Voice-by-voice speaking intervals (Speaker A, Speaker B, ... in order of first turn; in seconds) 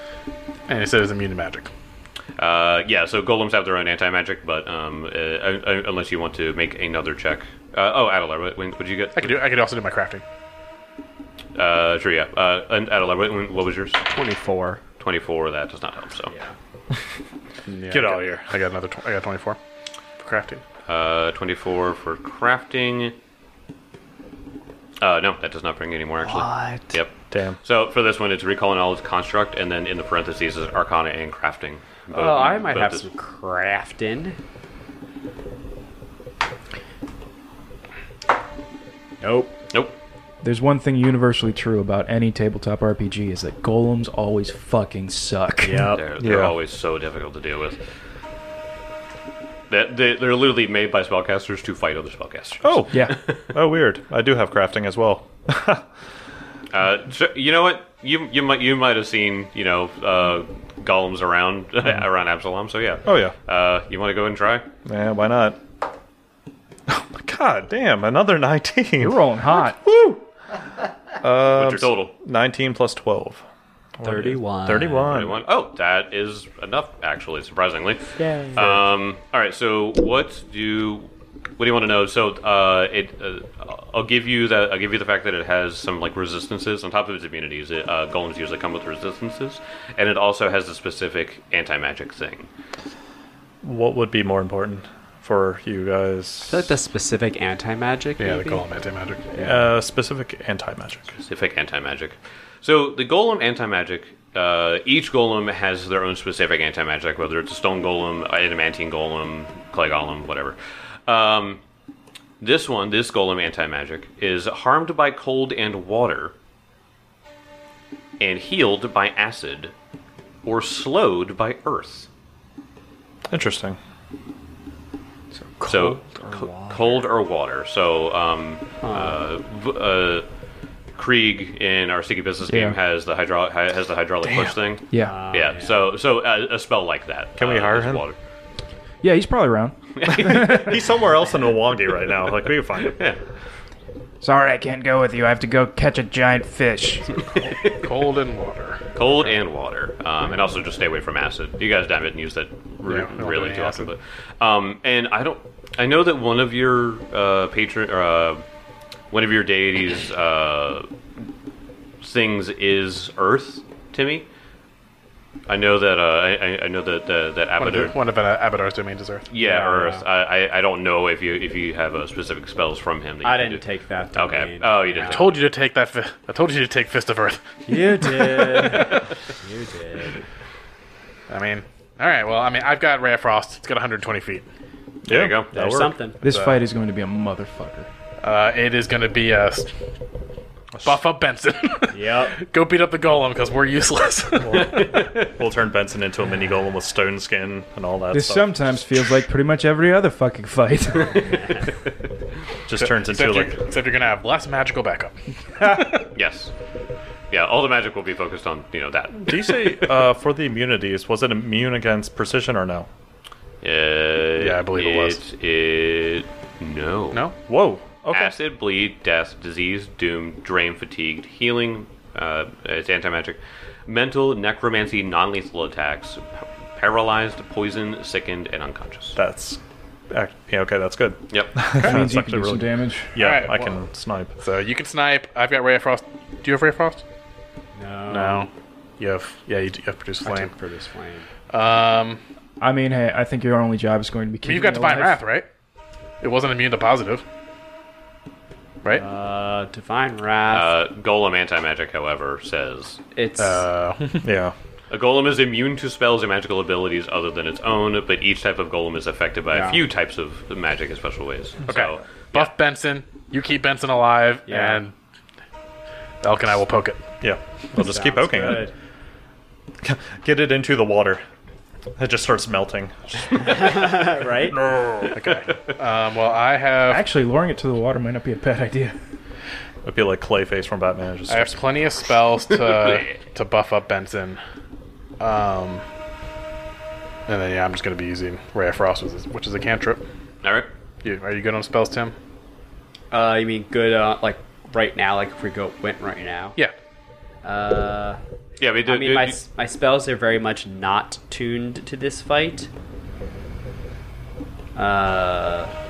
Speaker A: 0.7-1.7, 9.2-10.2, 17.7-19.6, 20.2-20.6, 98.2-99.3, 147.5-149.3, 152.8-153.9, 167.6-169.3, 175.0-178.1, 181.3-184.4, 186.2-186.6, 188.2-189.7, 190.8-194.8, 202.8-206.0, 214.4-215.2, 231.8-232.0, 233.2-233.8, 234.4-237.0, 238.1-240.5, 241.5-242.2, 244.4-245.5, 246.2-247.2, 253.4-254.3, 261.7-264.9, 266.2-267.1, 275.1-277.0, 281.3-284.4, 285.2-285.8, 287.3-290.1, 291.0-292.1
Speaker B: 2.4-9.4, 11.6-14.0, 15.0-16.3, 20.9-23.1, 25.0-33.1, 45.9-47.8, 49.7-53.4, 56.7-64.7, 71.5-72.1, 75.1-92.5, 101.2-110.5, 111.1-111.6, 112.4-116.3, 118.2-119.7, 120.4-122.1, 125.7-130.2, 130.9-138.2, 140.0-140.7, 142.9-143.2, 148.9-158.4, 159.1-160.9, 162.0-164.2, 165.5-167.9, 169.3-173.6, 174.1-175.4, 185.1-185.5, 194.6-195.3, 205.9-206.5, 207.3-209.9, 213.6-217.2, 218.1-229.2, 231.3-231.6, 250.5-253.0, 254.9-262.5, 290.4-290.7, 298.6-299.4
Speaker C: 14.0-14.8, 26.2-26.9, 32.1-34.4, 39.2-39.5, 45.6-46.0, 74.0-75.2, 78.2-78.8, 96.5-98.7, 99.3-99.6, 125.4-127.0, 128.8-129.2, 134.9-135.8, 169.4-170.0, 173.2-175.2, 177.7-180.2, 185.5-186.2, 191.9-192.4, 237.7-238.5, 240.2-241.3, 248.9-250.8, 253.1-253.7, 259.5-259.8, 264.5-264.8, 267.8-268.7, 273.5-274.6, 293.1-296.6, 297.4-298.2, 298.8-302.7, 304.8-305.7
Speaker D: 17.9-18.5, 27.3-27.6, 46.2-46.5, 52.6-55.8, 63.0-63.3, 64.8-65.6, 66.9-70.2, 71.2-73.4, 74.0-75.4, 93.6-96.7, 99.4-101.2, 123.3-123.8, 137.4-138.0, 140.0-143.0, 185.1-185.9, 194.4-198.7, 202.7-203.7, 209.2-212.9, 217.5-218.3, 229.2-234.3, 254.2-254.5, 267.2-268.7, 269.8-271.2, 272.0-275.1, 279.8-281.7
Speaker E: 40.4-45.9, 52.9-53.1, 69.0-69.8, 132.5-132.8, 139.0-140.7, 144.2-147.2, 186.2-187.9, 198.1-201.4, 231.8-233.2, 242.6-245.2, 276.9-278.9